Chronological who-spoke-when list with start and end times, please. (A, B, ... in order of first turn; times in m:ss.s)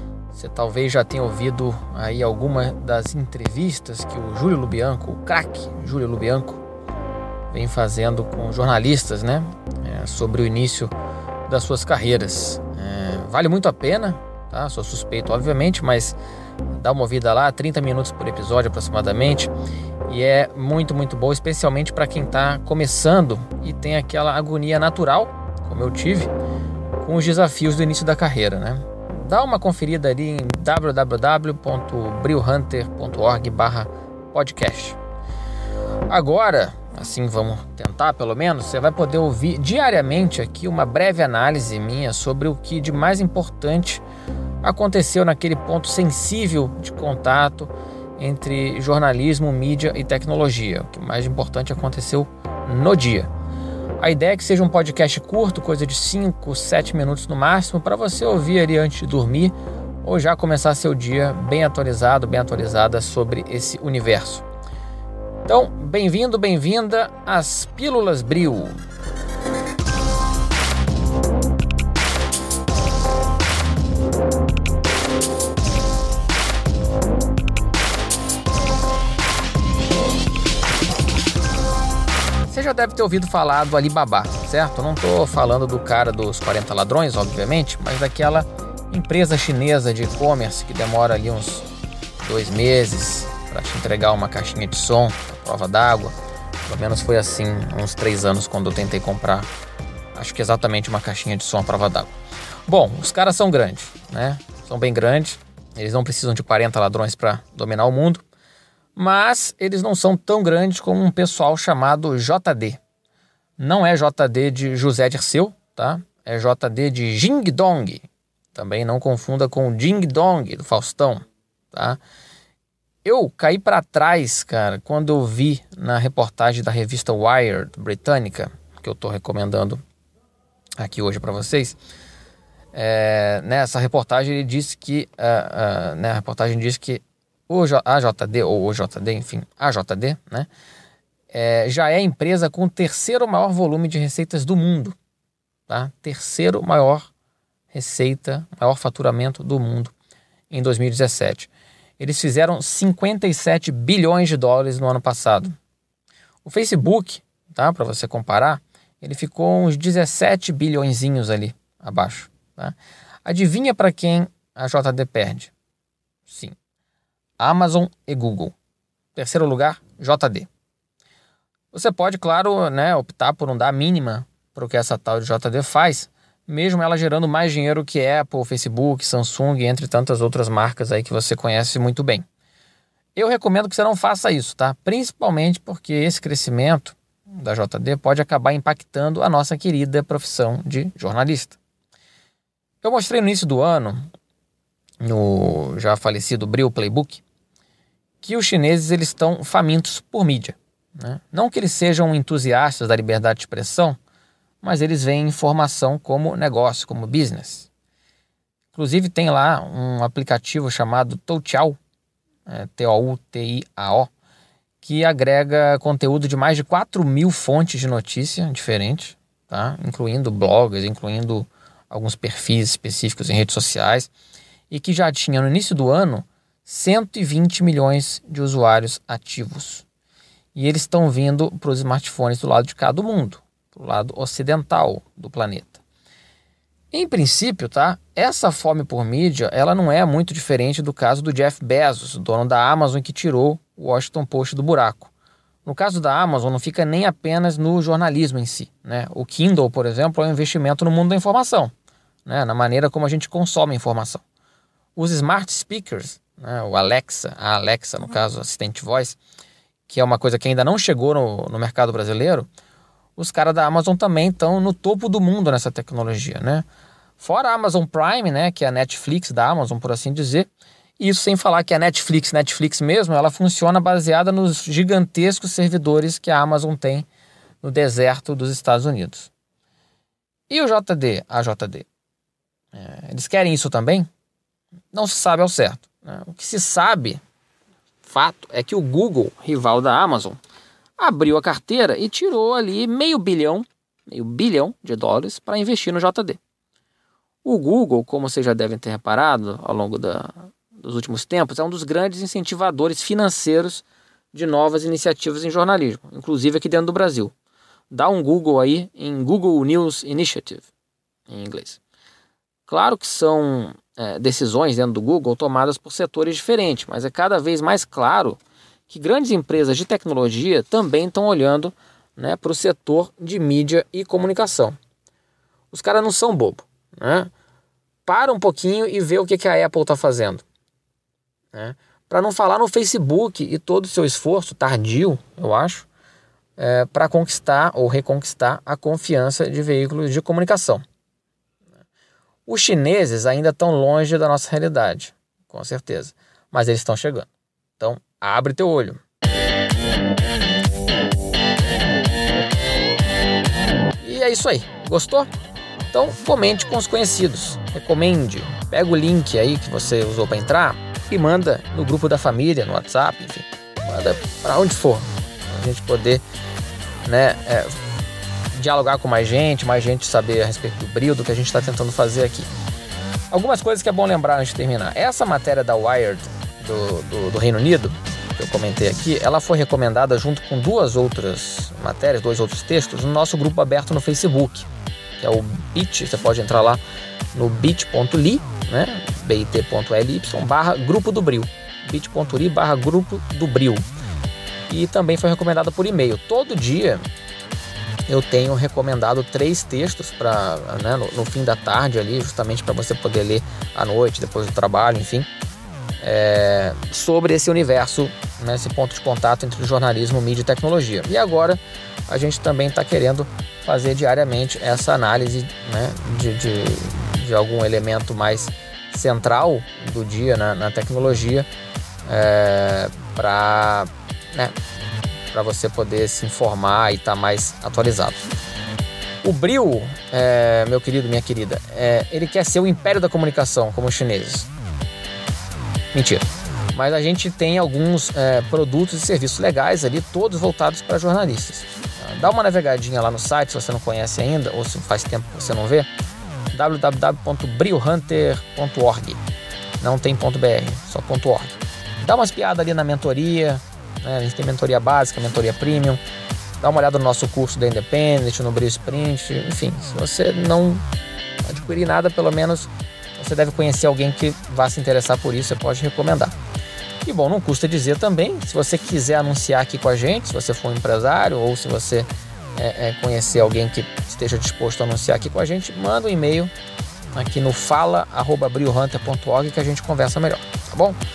0:00.3-0:06.6 A
0:07.5-0:10.9 A
0:11.5-0:16.2 A
0:16.7-0:19.5 A
0:20.1-0:26.3 A
0:27.0-0:35.0 A
0:36.1-0:44.0 A
0:44.6-0:53.3 A
0:54.0-1:04.4 A
1:05.5-1:08.8 A
1:22.5-1:31.7 A
1:32.2-1:39.5 A
1:40.2-1:42.1 A
1:42.7-1:48.2 A
1:49.0-1:52.8 A
1:53.6-2:02.0 A
2:03.0-2:09.8 A
2:10.8-2:11.8 A
2:12.7-2:20.5 A
2:21.3-2:25.0 A
2:25.7-2:27.1 A
2:27.7-2:30.0 A
2:30.5-2:35.5 A
2:36.4-2:45.5 A
2:46.3-2:46.6 A
2:47.4-2:48.6 A
2:49.2-2:50.5 A
2:51.7-3:02.3 A
3:03.2-3:11.6 A
3:12.8-3:14.1 A
3:15.0-3:17.2 A
3:18.2-3:24.0 A
3:24.6-3:27.7 A
3:28.7-3:31.8 A
3:32.5-3:34.1 A
3:34.8-3:44.1 A
3:44.7-3:49.9 A
3:50.5-3:55.8 A
3:56.9-4:05.1 A
4:05.6-4:11.7 A
4:12.2-4:14.2 A
4:15.0-4:19.2 A
4:19.9-4:22.5 A
4:23.2-4:26.6 A
4:27.2-4:37.1 A
4:37.6-4:39.3 A
4:40.5-4:41.9 A
4:42.7-4:44.1 A
4:44.9-4:47.2 A
4:48.0-4:50.4 A
4:51.0-4:56.4 A
4:57.4-5:07.3 A
5:07.9-5:10.7 A
5:11.3-5:11.8 A
5:12.7-5:24.8 A
5:25.7-5:27.3 A
5:28.0-5:30.4 A
5:31.5-5:35.9 A
5:36.6-5:40.8 A
5:42.5-5:49.0 A
5:54.0-5:55.3 A
5:55.9-6:06.2 A
6:07.0-6:07.8 A
6:08.5-6:12.5 A
6:13.3-6:26.8 A
6:27.3-6:33.9 A
6:34.7-6:37.0 A
6:38.1-6:45.3 A
6:46.0-7:01.5 A
7:02.0-7:04.6 A
7:05.3-7:08.2 A
7:09.2-7:14.5 A
7:15.9-7:25.9 A
7:26.5-7:29.2 A
7:29.8-7:36.0 A
7:36.6-7:40.8 A
7:41.4-7:46.4 A
7:47.0-7:56.5 A
7:57.1-8:01.0 A